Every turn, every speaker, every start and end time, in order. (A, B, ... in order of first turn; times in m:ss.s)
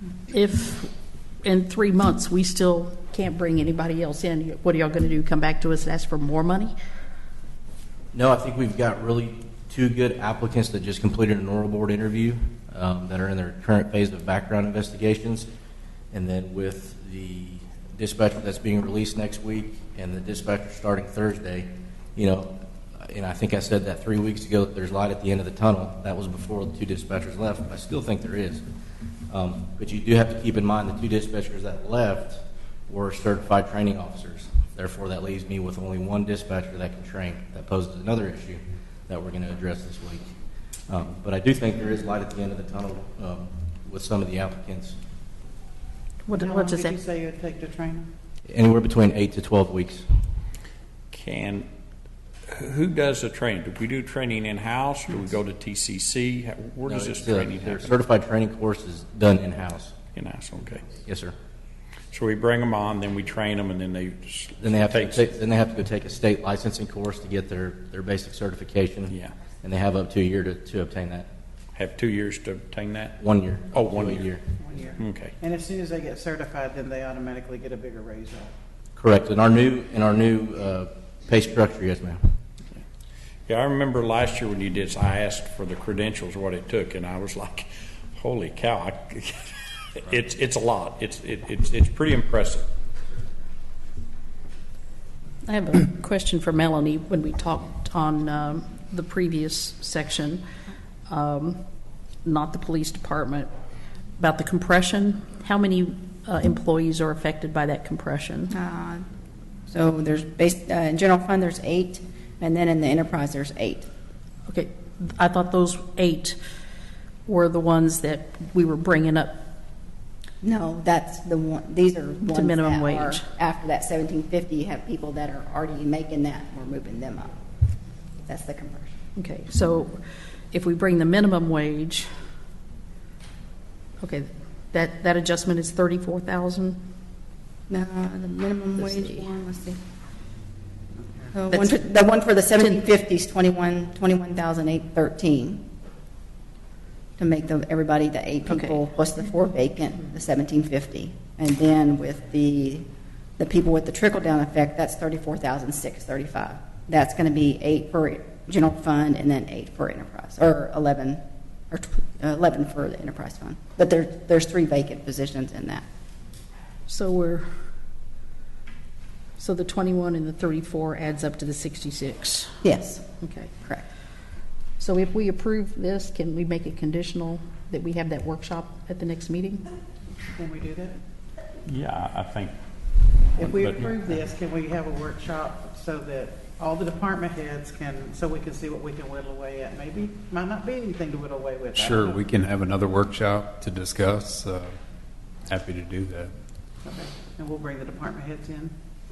0:00.3-0:00.9 A
0:01.4-0:06.7 A
0:08.1-0:15.5 B
0:16.1-0:28.6 B
0:29.3-0:40.2 B
0:40.9-0:45.0 B
0:46.3-0:47.0 A
0:46.3-0:48.1 C
0:48.5-0:50.0 B
0:51.1-0:51.7 D
0:52.5-0:58.0 D
0:56.9-0:59.9 B
1:00.1-1:00.9 D
1:01.1-1:01.4 B
1:02.1-1:05.3 D
1:04.6-1:11.3 B
1:11.8-1:13.2 D
1:13.2-1:14.4 B
1:13.7-1:14.3 D
1:14.6-1:18.5 C
1:15.0-1:15.3 D
1:19.0-1:22.2 B
1:23.5-1:32.7 D
1:35.4-1:40.4 A
1:41.1-1:41.6 A
1:42.2-1:43.5 A
1:44.2-1:48.5 A
1:48.5-1:49.0 E
1:49.7-1:53.9 E
1:54.5-1:56.4 A
1:57.3-1:59.4 A
2:00.4-2:07.4 E
2:02.3-2:03.3 A
2:08.2-2:09.0 E
2:09.2-2:12.1 A
2:14.0-2:16.8 A
2:17.7-2:19.8 E
2:21.3-2:25.7 E
2:21.5-2:21.8 A
2:22.6-2:22.8 A
2:27.2-2:32.9 E
2:28.5-2:28.8 A
2:33.4-2:45.9 E
2:46.9-2:47.5 A
2:49.4-2:52.6 A
2:52.6-2:53.1 E
2:53.2-2:53.5 A
2:54.8-2:59.7 A
3:00.4-3:01.0 C
3:01.7-3:02.5 D
3:03.4-3:12.2 C
3:03.4-3:04.2 D
3:11.8-3:14.7 F
3:15.4-3:16.3 F
3:16.8-3:18.7 C